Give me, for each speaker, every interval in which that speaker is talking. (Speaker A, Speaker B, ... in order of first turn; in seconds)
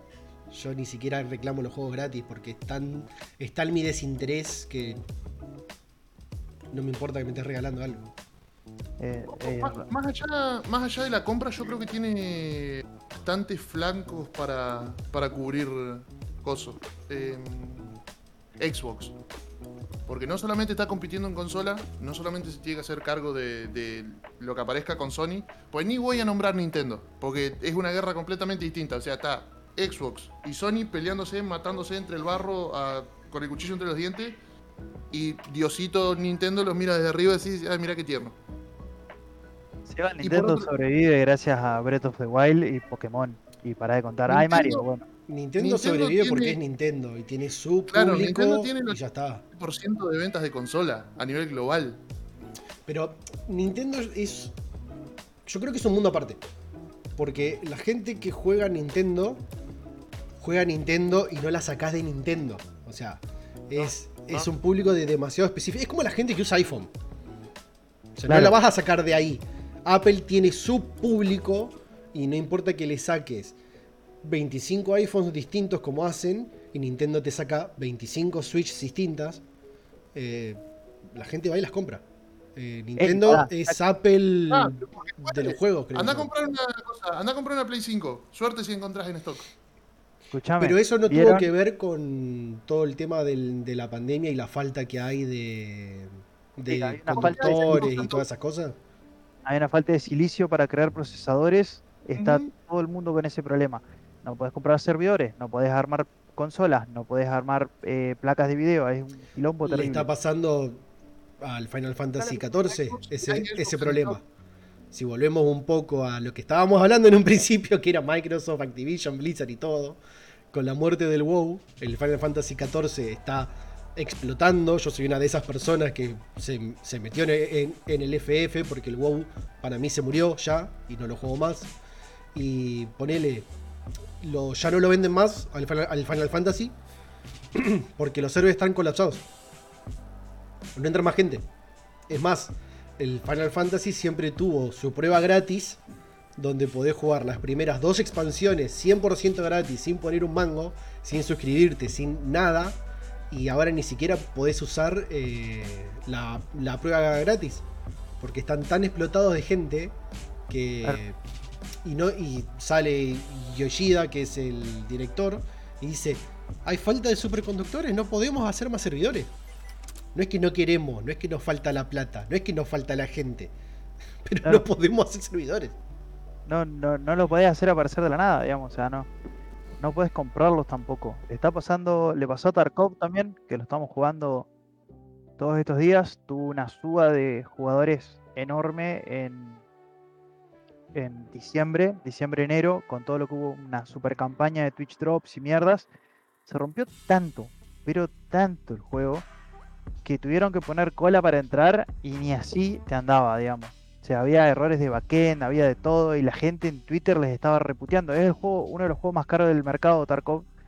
Speaker A: 0.5-5.0, 6.7-8.1, 45.3-49.4, 52.9-54.5, 55.5-56.4, 57.1-59.4, 60.4-66.9, 68.2-73.6, 74.2-79.4, 80.1-86.3, 90.6-98.8, 109.7-110.8, 111.4-114.2, 114.9-120.0, 120.5-131.7, 132.3-133.5, 134.2-136.8, 137.5-139.3, 140.7-141.4, 142.1-145.8, 146.4-152.8, 153.3-157.6, 158.2-160.0, 160.5-161.2, 161.8-169.3, 170.1-173.5, 174.2-175.8
Speaker B: 9.0-9.9, 39.9-45.0, 68.3-68.6, 83.0-83.8, 90.3-91.5, 96.7-98.2, 99.4-110.1, 176.5-179.1, 179.8-184.5, 185.4-189.6, 190.9-195.9, 196.4-199.2, 200.0-210.5
Speaker C: 9.3-18.0, 18.6-19.1, 20.1-34.4, 35.1-38.4, 40.2-40.7, 44.3-44.8, 45.6-46.6, 47.9-49.0, 49.5-52.0, 63.8-64.5, 84.5-89.5, 97.1-98.2, 102.2-102.5, 112.4-114.2